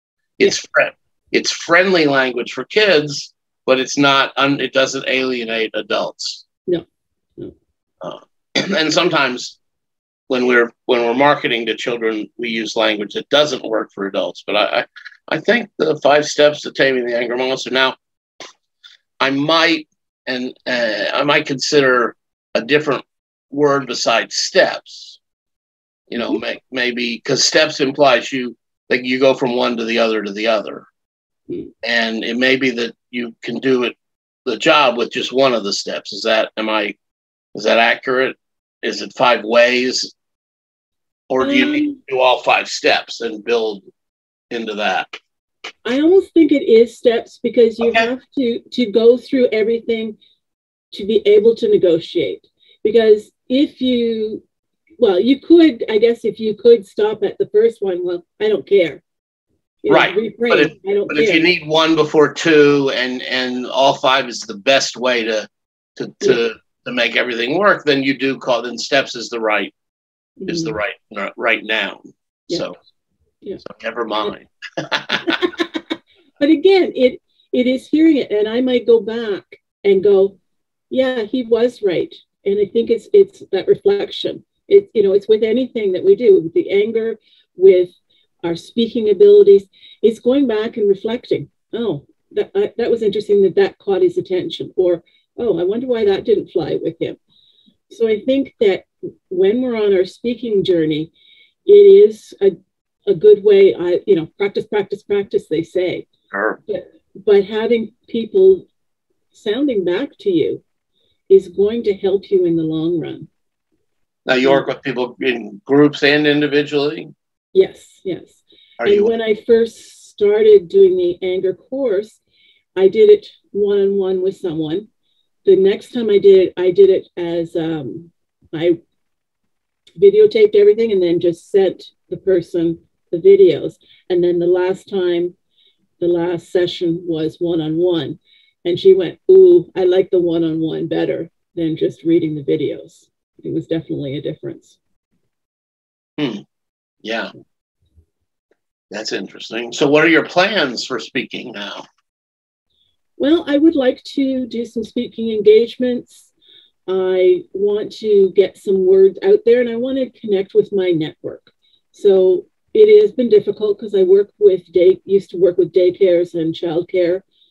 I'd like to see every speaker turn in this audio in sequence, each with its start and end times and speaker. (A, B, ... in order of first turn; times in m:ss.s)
0:00.4-0:06.4 A
0:08.0-0:09.6 A
0:10.3-0:18.0 A
0:19.2-0:25.2 A
0:26.1-0:30.8 A
0:31.8-0:36.9 A
0:37.5-0:40.1 A
0:41.3-0:43.8 A
0:41.4-0:42.0 B
0:44.5-0:45.1 A
0:45.8-0:50.2 B
0:47.8-0:48.1 A
0:50.9-0:54.4 B
0:55.0-0:59.0 B
0:59.8-1:01.5 B
0:59.9-1:09.7 A
1:10.4-1:10.8 B
1:10.5-1:12.8 A
1:13.6-1:15.5 A
1:15.3-1:15.6 B
1:16.4-1:20.4 B
1:20.9-1:37.2 B
1:37.9-1:41.1 B
1:41.6-1:42.6 B
1:43.1-1:46.0 B
1:46.3-1:46.6 A
1:46.7-1:48.7 B
1:49.3-1:50.6 B
1:51.3-1:53.3 B
1:54.2-1:57.1 A
1:57.5-2:02.2 B
1:58.8-1:59.1 A
2:02.8-2:04.9 B
2:05.4-2:08.8 B
2:10.0-2:15.3 B
2:16.0-2:24.8 B
2:26.2-2:26.4 A
2:27.0-2:27.3 A
2:28.9-2:31.8 A
2:33.2-2:36.3 B
2:36.9-2:47.2 B